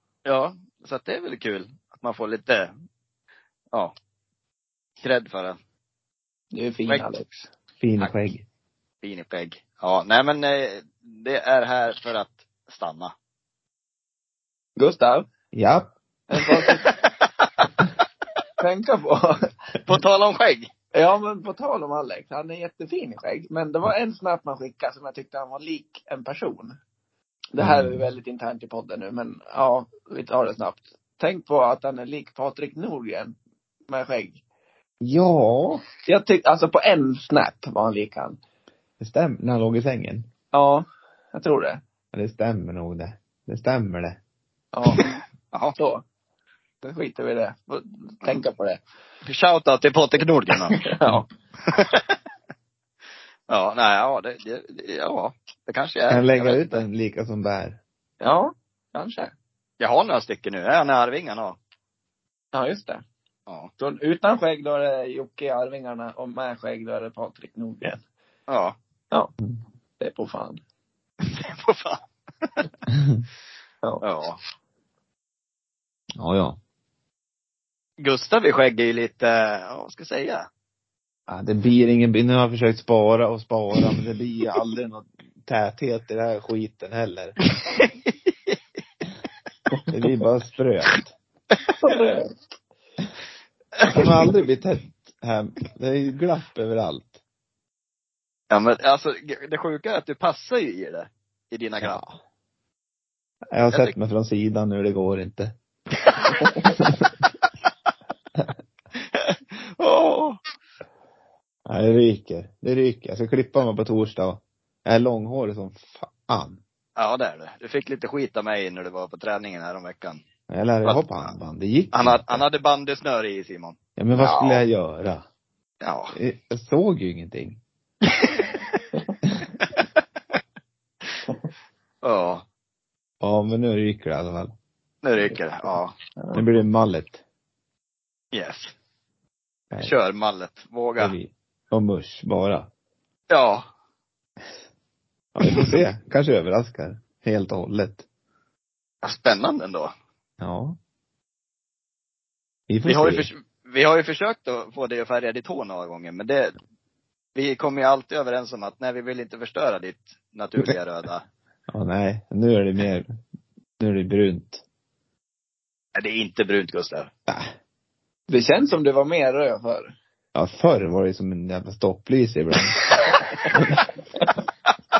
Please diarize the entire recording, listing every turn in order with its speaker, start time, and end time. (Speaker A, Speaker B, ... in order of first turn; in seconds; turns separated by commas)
Speaker A: 0.2-2.7, Speaker A: 5.0-5.6, Speaker B: 6.5-7.5, Speaker C: 7.8-8.4, Speaker A: 9.0-13.1, Speaker B: 14.8-15.2, Speaker C: 15.5-15.9, Speaker B: 16.3-16.9, Speaker B: 18.6-19.5, Speaker A: 19.9-20.7, Speaker B: 20.9-26.8, Speaker B: 27.5-33.4, Speaker C: 27.6-28.0, Speaker B: 33.9-34.4, Speaker C: 35.0-35.8, Speaker B: 36.0-38.4, Speaker C: 39.0-40.3, Speaker B: 40.5-41.8, Speaker C: 42.1-44.2, Speaker B: 44.7-45.2, Speaker A: 44.9-45.8, Speaker B: 45.8-46.0, Speaker B: 46.8-48.8, Speaker A: 49.2-50.9, Speaker B: 50.8-51.2, Speaker A: 51.6-52.1, Speaker A: 53.5-56.8, Speaker C: 56.1-57.8, Speaker B: 58.2-59.3, Speaker A: 59.8-61.6, Speaker B: 62.5-63.0, Speaker B: 63.8-68.0, Speaker A: 68.5-68.7, Speaker B: 70.0-70.6, Speaker A: 71.2-72.0, Speaker C: 72.9-73.2, Speaker A: 74.0-74.4, Speaker C: 76.2-76.6, Speaker A: 78.0-80.5, Speaker C: 81.3-87.3, Speaker A: 87.6-87.9, Speaker C: 89.9-91.1, Speaker B: 91.8-92.3, Speaker C: 93.9-97.2, Speaker A: 98.5-102.0, Speaker C: 101.8-102.2, Speaker C: 103.5-105.5, Speaker C: 106.6-107.1, Speaker A: 109.1-110.4, Speaker C: 111.7-116.6, Speaker A: 117.0-120.2, Speaker C: 120.5-122.4, Speaker A: 121.9-123.8, Speaker C: 124.0-125.2, Speaker B: 124.1-124.6, Speaker A: 125.8-126.1, Speaker C: 126.1-127.6, Speaker A: 132.0-132.4, Speaker C: 133.2-134.5, Speaker A: 135.0-135.9, Speaker B: 136.2-136.4, Speaker C: 136.3-137.2, Speaker A: 138.3-138.7, Speaker A: 139.8-141.1, Speaker C: 141.0-142.7, Speaker A: 143.3-143.7, Speaker C: 145.3-148.0, Speaker A: 149.0-149.9, Speaker C: 150.4-150.8, Speaker C: 152.7-153.3, Speaker A: 152.8-156.5, Speaker A: 157.3-161.2, Speaker C: 161.7-163.1, Speaker C: 163.8-164.6, Speaker A: 165.9-167.1, Speaker B: 168.3-169.9, Speaker C: 170.3-172.9, Speaker C: 173.5-173.8